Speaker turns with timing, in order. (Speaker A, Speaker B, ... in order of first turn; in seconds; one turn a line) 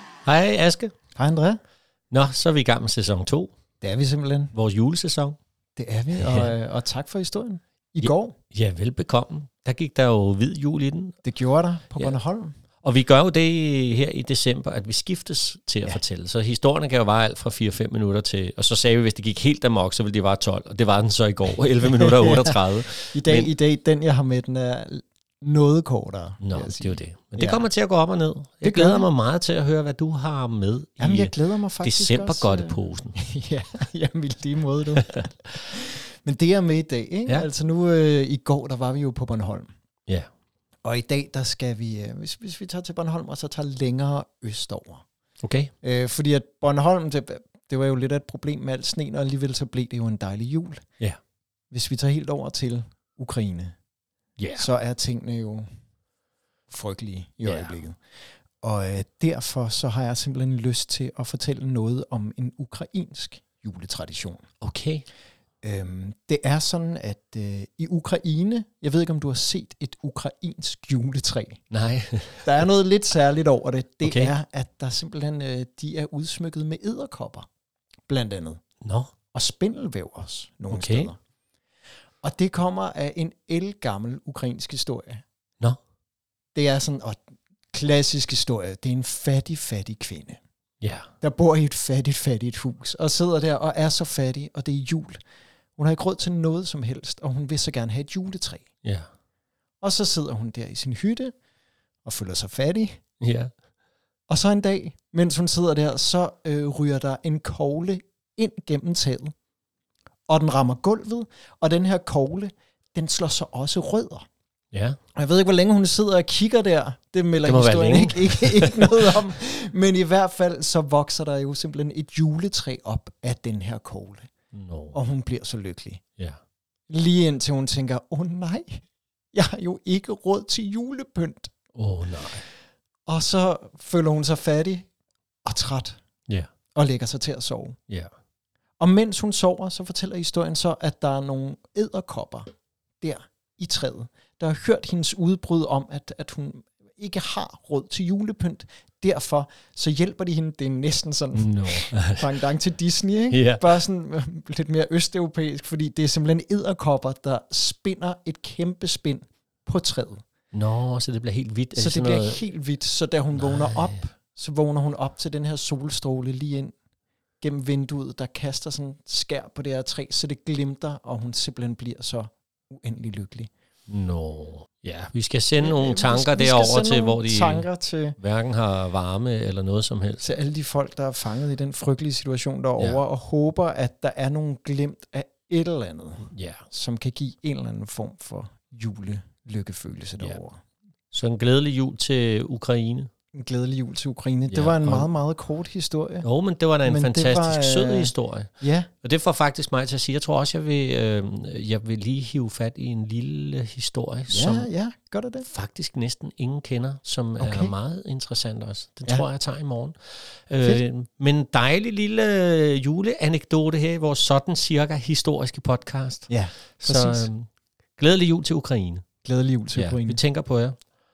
Speaker A: 0.2-0.9
Speaker B: 1.1-1.6
Speaker A: 2.1-3.5
Speaker B: 3.8-4.5
Speaker A: 4.5-5.4
Speaker B: 5.8-8.3
Speaker A: 6.1-6.5
Speaker A: 8.0-11.2
Speaker B: 11.2-12.5
Speaker A: 12.8-23.5
Speaker B: 21.8-27.7
Speaker A: 26.4-33.2
Speaker B: 28.6-29.1
Speaker B: 31.0-39.7
Speaker B: 40.8-45.0
Speaker A: 45.4-45.7
Speaker B: 45.8-50.8
Speaker B: 51.7-53.7
Speaker A: 54.4-54.7
Speaker B: 54.5-55.7
Speaker B: 56.7-58.0
Speaker A: 57.5-57.8
Speaker B: 58.6-64.4
Speaker A: 64.6-65.0
Speaker B: 65.6-71.6
Speaker A: 71.7-72.5
Speaker B: 72.4-77.5
Speaker A: 74.0-74.3
Speaker B: 78.1-78.6
Speaker A: 78.8-79.1
Speaker B: 79.3-81.2
Speaker A: 80.7-81.1
Speaker B: 82.2-85.2
Speaker B: 86.5-87.2
Speaker B: 87.7-90.4
Speaker A: 90.8-91.1
Speaker B: 91.2-95.2
Speaker B: 95.8-98.7
Speaker B: 99.8-101.3
Speaker B: 102.0-103.0
Speaker A: 103.2-103.5
Speaker B: 104.3-109.3
Speaker B: 110.3-114.2
Speaker A: 114.7-115.0
Speaker B: 115.1-124.3
Speaker A: 117.4-119.1
Speaker A: 124.5-125.0
Speaker B: 124.9-126.0
Speaker B: 126.9-128.8
Speaker B: 129.3-131.5
Speaker A: 131.7-132.4
Speaker B: 133.1-134.9
Speaker B: 135.4-136.0
Speaker B: 136.7-137.8
Speaker B: 138.8-142.5
Speaker B: 143.0-160.2
Speaker A: 151.3-152.3
Speaker A: 153.3-153.8
Speaker A: 160.5-162.4
Speaker B: 161.7-166.7
Speaker A: 163.3-164.0
Speaker B: 167.4-173.5
Speaker A: 173.9-177.7
Speaker B: 175.6-178.2
Speaker A: 178.2-180.3
Speaker B: 180.2-190.6
Speaker A: 186.3-186.6
Speaker A: 191.1-193.1
Speaker B: 193.3-196.3
Speaker A: 194.5-195.1
Speaker A: 196.2-198.5
Speaker B: 196.8-198.9
Speaker A: 199.0-204.7
Speaker B: 204.3-205.5
Speaker A: 205.4-219.0
Speaker B: 207.4-207.7
Speaker B: 216.3-217.3
Speaker B: 219.2-220.2
Speaker A: 219.8-220.8